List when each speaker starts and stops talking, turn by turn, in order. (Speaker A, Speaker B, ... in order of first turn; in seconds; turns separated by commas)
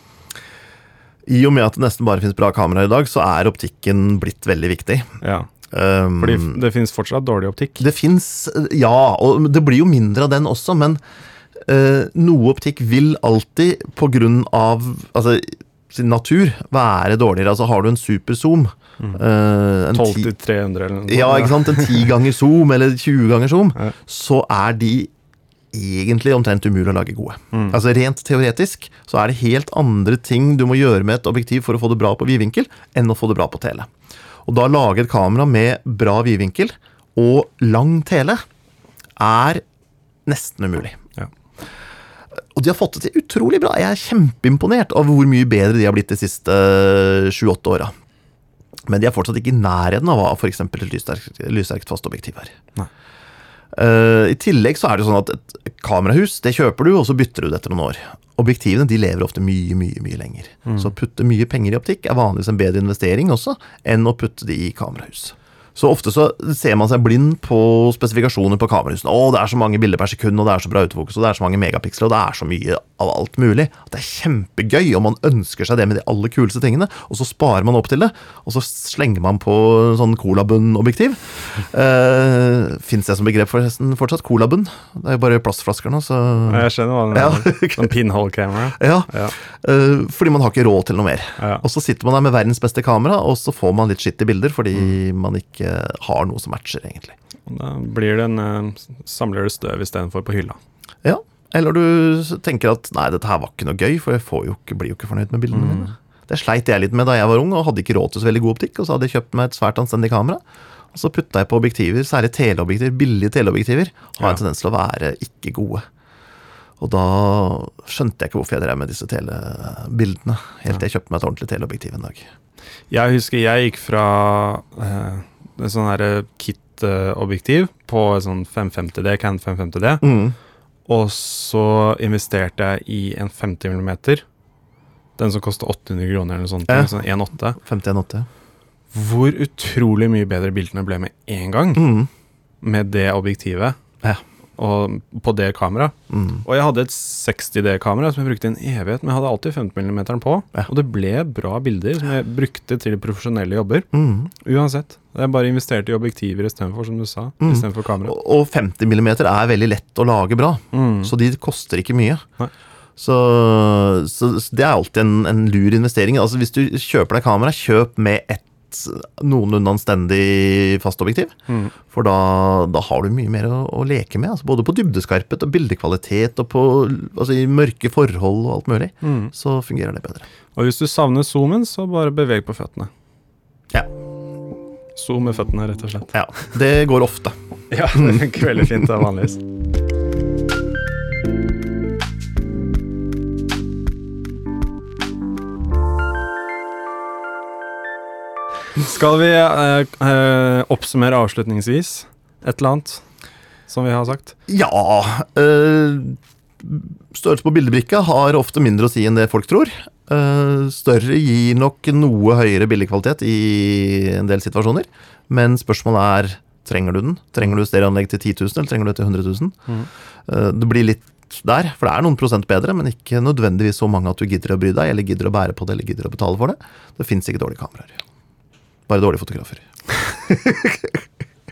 Speaker A: 1.3-5.1, Speaker B: 5.2-5.5, Speaker A: 5.7-6.6, Speaker B: 6.2-7.8, Speaker A: 7.8-11.0, Speaker A: 11.7-20.3, Speaker B: 19.9-22.1, Speaker A: 21.1-25.1, Speaker A: 25.7-33.9, Speaker B: 27.5-27.8, Speaker A: 34.5-38.4, Speaker A: 39.2-39.6, Speaker A: 40.3-41.0, Speaker A: 42.5-47.9, Speaker A: 48.9-52.5, Speaker A: 53.7-88.0, Speaker B: 60.7-60.9, Speaker B: 86.5-89.3, Speaker A: 88.8-97.2, Speaker B: 91.4-91.6, Speaker B: 97.5-100.6, Speaker A: 101.0-110.4, Speaker B: 105.5-105.9, Speaker A: 110.9-115.8, Speaker A: 116.8-122.3, Speaker B: 122.9-130.0, Speaker A: 130.0-130.4, Speaker B: 130.9-134.2, Speaker B: 135.2-137.6, Speaker A: 136.7-136.9, Speaker A: 137.6-138.3, Speaker B: 138.9-141.9, Speaker A: 141.8-142.1, Speaker B: 142.6-143.8, Speaker B: 144.6-145.9, Speaker A: 146.1-146.4, Speaker B: 146.4-153.9, Speaker A: 153.9-154.3, Speaker B: 154.4-158.2, Speaker A: 157.4-162.2, Speaker B: 160.7-161.1, Speaker A: 163.0-171.3, Speaker B: 171.5-171.7, Speaker A: 171.9-180.3, Speaker B: 179.0-179.3, Speaker B: 180.6-182.9, Speaker B: 184.9-186.1, Speaker A: 186.1-187.4, Speaker B: 187.7-189.4, Speaker A: 187.9-188.8, Speaker B: 198.8-203.0, Speaker B: 203.7-204.3, Speaker A: 204.5-219.6, Speaker A: 220.3-228.0, Speaker A: 228.9-229.6, Speaker A: 230.3-230.9